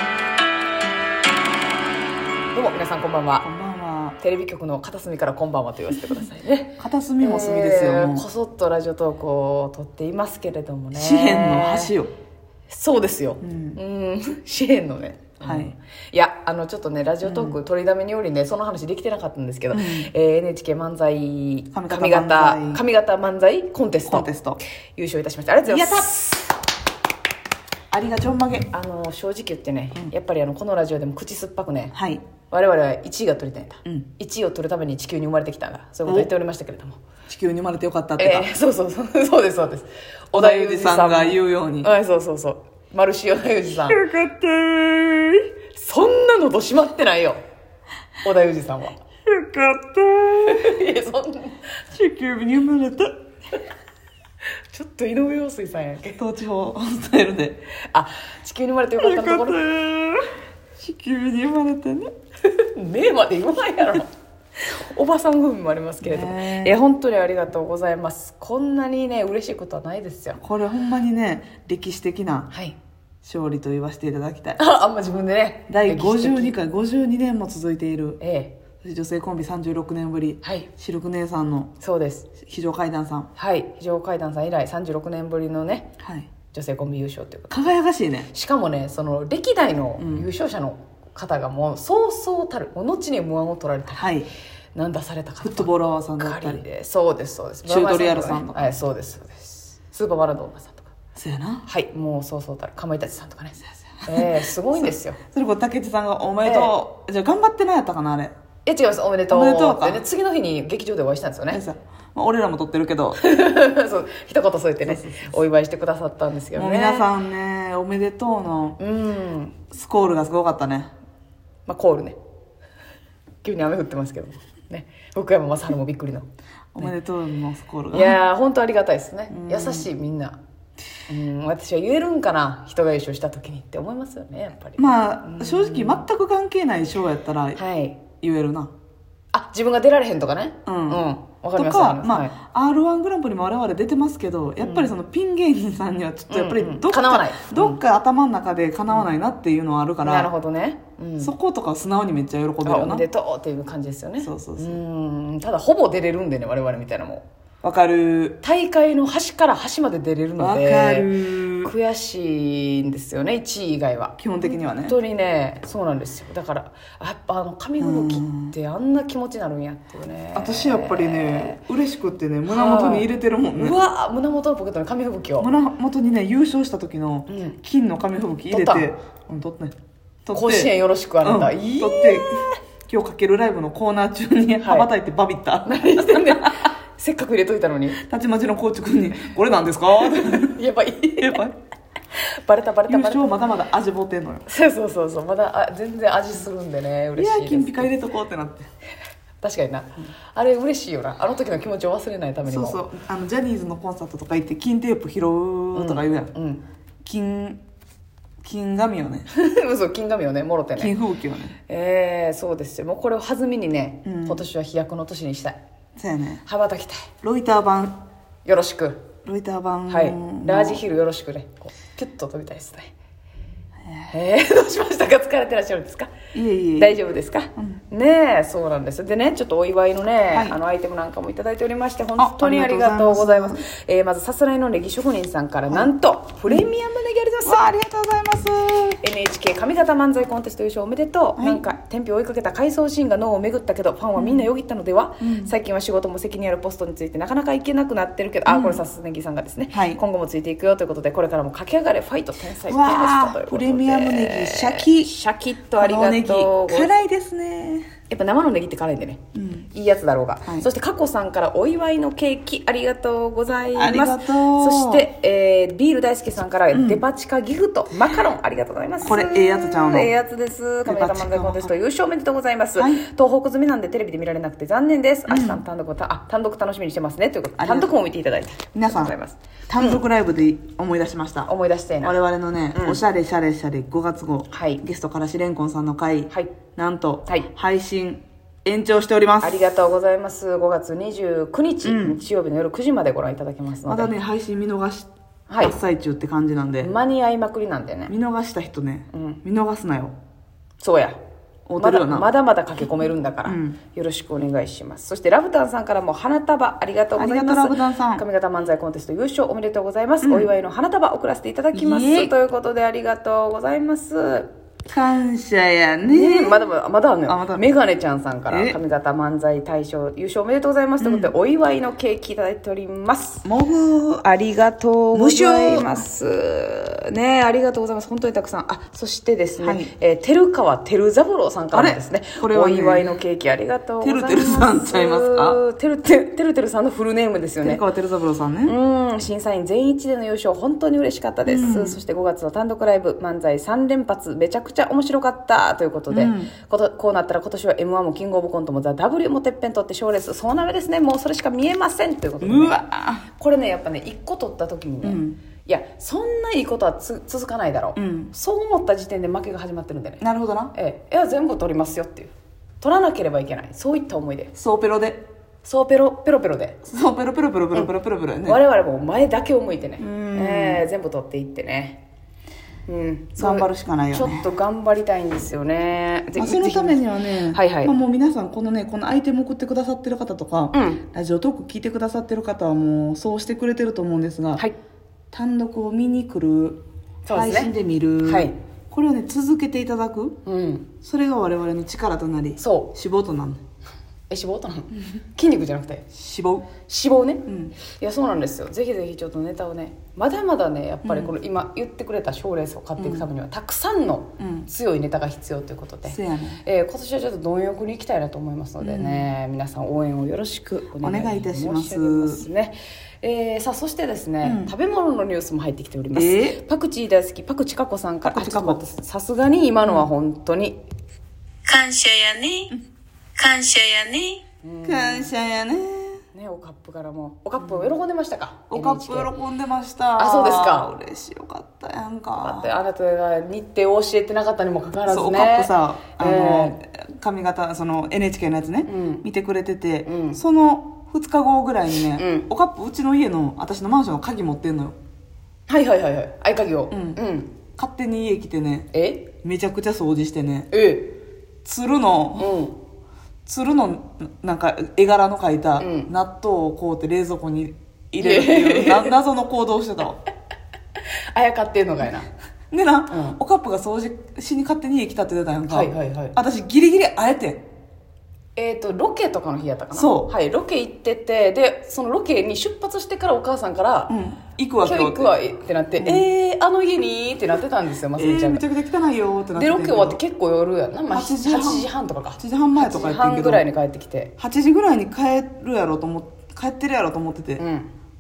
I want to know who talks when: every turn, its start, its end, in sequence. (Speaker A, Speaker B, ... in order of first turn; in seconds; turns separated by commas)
Speaker A: 2.5-3.5, Speaker B: 3.4-4.2, Speaker A: 4.2-11.9, Speaker B: 6.8-8.2, Speaker B: 10.9-12.1, Speaker A: 12.7-24.3, Speaker B: 13.4-13.8, Speaker B: 15.4-15.7, Speaker B: 17.2-17.6, Speaker B: 19.7-20.1, Speaker B: 21.7-22.8, Speaker B: 24.1-24.6, Speaker A: 24.9-26.5, Speaker B: 25.6-26.2, Speaker B: 27.9-28.7, Speaker A: 28.7-31.9, Speaker B: 31.9-32.2, Speaker A: 32.5-37.0, Speaker B: 37.3-38.5, Speaker A: 38.2-44.0, Speaker B: 40.3-41.9, Speaker B: 43.8-45.5, Speaker A: 45.7-47.4, Speaker A: 48.2-49.0, Speaker B: 49.3-50.8, Speaker A: 50.5-51.6, Speaker B: 51.9-53.1, Speaker A: 54.7-56.2, Speaker B: 56.2-57.6, Speaker A: 57.8-59.6, Speaker B: 59.0-60.2, Speaker B: 60.8-62.1, Speaker A: 62.5-70.4, Speaker B: 66.0-66.8, Speaker B: 70.4-72.5, Speaker A: 72.5-72.8, Speaker B: 73.2-74.6, Speaker A: 74.6-76.5, Speaker B: 75.7-78.2, Speaker A: 78.2-78.6, Speaker B: 78.8-81.7, Speaker A: 80.4-80.7, Speaker A: 81.8-82.3, Speaker B: 82.4-83.3, Speaker A: 83.3-85.9, Speaker B: 86.0-86.3, Speaker A: 86.5-87.5, Speaker B: 87.5-88.3, Speaker A: 88.3-94.1, Speaker B: 90.0-90.3, Speaker B: 93.9-94.3, Speaker A: 94.7-100.9, Speaker B: 95.4-96.6, Speaker B: 97.6-98.7, Speaker B: 101.2-101.7, Speaker A: 101.6-105.2, Speaker B: 104.0-108.3, Speaker A: 106.4-106.7, Speaker A: 108.6-111.6, Speaker B: 109.3-110.0, Speaker B: 111.5-113.2, Speaker A: 113.2-117.1, Speaker B: 114.8-115.3, Speaker B: 116.5-118.8, Speaker A: 118.8-119.6, Speaker B: 119.7-120.9, Speaker A: 121.7-122.2, Speaker A: 123.4-126.3, Speaker B: 126.7-128.2, Speaker A: 127.9-130.4, Speaker B: 129.3-129.9, Speaker A: 131.1-136.0, Speaker B: 134.8-137.6, Speaker A: 137.6-138.0, Speaker B: 138.2-138.7, Speaker A: 139.3-142.3, Speaker B: 140.7-141.0, Speaker B: 141.5-150.3, Speaker A: 144.6-144.9, Speaker A: 146.3-147.8, Speaker A: 150.0-151.3, Speaker B: 151.2-153.0, Speaker A: 152.6-157.2, Speaker B: 154.2-154.8, Speaker B: 157.6-158.4, Speaker A: 158.4-161.1, Speaker B: 160.4-161.7, Speaker A: 161.6-171.6, Speaker B: 164.2-164.9, Speaker B: 167.8-168.5, Speaker B: 170.3-173.8, Speaker A: 172.4-175.5, Speaker B: 175.4-186.6, Speaker A: 177.3-177.6, Speaker A: 178.5-178.9, Speaker A: 180.3-182.6, Speaker A: 184.6-184.9, Speaker A: 185.6-188.0, Speaker B: 188.0-190.6, Speaker A: 190.0-191.4, Speaker B: 191.2-191.5, Speaker A: 192.2-193.4, Speaker B: 192.9-194.5, Speaker A: 194.5-197.9, Speaker B: 197.2-198.7, Speaker A: 199.4-202.8, Speaker B: 202.5-206.3, Speaker A: 205.7-206.6, Speaker B: 207.0-207.6, Speaker B: 208.4-209.3, Speaker A: 209.3-210.9, Speaker B: 210.8-211.6, Speaker A: 211.7-215.6, Speaker B: 214.0-214.4, Speaker B: 216.0-216.4, Speaker A: 216.4-217.1, Speaker B: 217.2-218.0, Speaker A: 218.4-219.1, Speaker B: 219.2-220.8, Speaker A: 219.9-222.9, Speaker B: 223.8-224.1, Speaker A: 224.1-226.1, Speaker B: 226.3-226.9, Speaker A: 226.8-237.6, Speaker B: 227.6-227.8, Speaker B: 232.2-233.6, Speaker B: 237.4-239.0, Speaker A: 239.0-256.9, Speaker B: 244.2-244.5, Speaker B: 245.2-245.5, Speaker B: 248.4-248.8, Speaker B: 249.7-250.0, Speaker B: 252.7-255.1, Speaker B: 255.8-257.9, Speaker A: 258.1-280.0, Speaker B: 259.3-259.7, Speaker B: 260.4-260.7, Speaker B: 263.7-265.1, Speaker B: 266.7-267.0, Speaker B: 269.0-270.1, Speaker B: 270.8-271.7, Speaker B: 272.8-273.0, Speaker B: 275.3-275.6, Speaker B: 277.6-277.9, Speaker B: 278.7-279.1, Speaker B: 279.7-281.5, Speaker A: 281.5-282.1, Speaker B: 282.0-289.6, Speaker A: 282.7-283.0, Speaker A: 284.5-284.8, Speaker A: 289.4-294.1, Speaker B: 291.8-292.2, Speaker B: 293.9-295.1, Speaker A: 295.5-295.7, Speaker B: 295.6-296.9, Speaker A: 296.8-298.1, Speaker B: 298.1-300.1, Speaker A: 299.1-299.4, Speaker A: 300.8-301.2, Speaker B: 301.7-302.3, Speaker A: 301.8-314.5, Speaker B: 303.4-303.8, Speaker B: 307.1-308.2, Speaker B: 310.2-310.5, Speaker B: 311.7-312.3, Speaker B: 314.9-316.6, Speaker A: 316.0-323.4, Speaker B: 317.3-317.6, Speaker B: 318.5-318.8, Speaker B: 321.0-321.3, Speaker B: 323.4-324.3, Speaker A: 324.3-337.8, Speaker B: 325.1-326.0, Speaker B: 329.6-329.9, Speaker B: 331.7-333.1, Speaker B: 334.0-335.6, Speaker B: 337.6-338.7, Speaker A: 338.6-360.2, Speaker B: 341.5-342.0, Speaker B: 346.1-346.5, Speaker B: 352.4-353.2, Speaker B: 355.0-355.4, Speaker B: 357.9-358.3, Speaker B: 360.2-360.7, Speaker A: 360.7-364.5, Speaker B: 364.6-365.2, Speaker A: 365.6-366.8, Speaker B: 366.8-368.6, Speaker A: 368.4-372.0, Speaker B: 370.0-370.8, Speaker A: 372.9-377.9, Speaker B: 373.4-374.5, Speaker B: 376.4-384.6, Speaker A: 380.7-381.0, Speaker B: 385.3-390.4, Speaker A: 387.2-388.5, Speaker A: 390.4-390.9, Speaker B: 391.0-393.6, Speaker A: 392.6-392.9, Speaker A: 394.3-396.1, Speaker B: 396.1-396.7, Speaker A: 396.9-420.8, Speaker B: 397.5-397.8, Speaker B: 401.0-401.3, Speaker B: 403.0-403.3, Speaker B: 404.4-404.7, Speaker B: 406.1-406.6, Speaker B: 408.8-409.3, Speaker B: 411.0-412.5, Speaker B: 414.4-414.7, Speaker B: 416.1-416.6, Speaker B: 418.2-418.8, Speaker C: 421.6-422.7, Speaker C: 423.4-424.4, Speaker A: 424.6-425.3, Speaker B: 424.8-426.2, Speaker A: 426.3-429.3, Speaker B: 427.6-427.9, Speaker B: 428.7-432.7, Speaker A: 430.2-430.9, Speaker A: 432.4-436.8, Speaker B: 435.1-445.0, Speaker A: 438.9-439.2, Speaker A: 440.0-440.4, Speaker A: 442.1-442.5, Speaker A: 445.7-447.6, Speaker B: 446.9-447.2, Speaker B: 447.8-448.9, Speaker A: 448.9-449.3, Speaker B: 449.4-450.7, Speaker A: 450.7-451.2, Speaker B: 451.6-452.6, Speaker A: 452.4-452.8, Speaker B: 453.4-460.2, Speaker A: 455.8-456.1, Speaker A: 458.2-459.1, Speaker A: 461.3-462.3, Speaker B: 462.7-467.6, Speaker A: 463.1-463.4, Speaker A: 465.7-466.3, Speaker A: 468.6-474.1, Speaker B: 469.9-470.3, Speaker B: 474.1-475.3, Speaker A: 474.8-478.6, Speaker B: 476.0-476.3, Speaker B: 478.1-480.2, Speaker A: 479.5-484.3, Speaker B: 481.1-483.7, Speaker B: 484.4-487.6, Speaker A: 487.6-487.9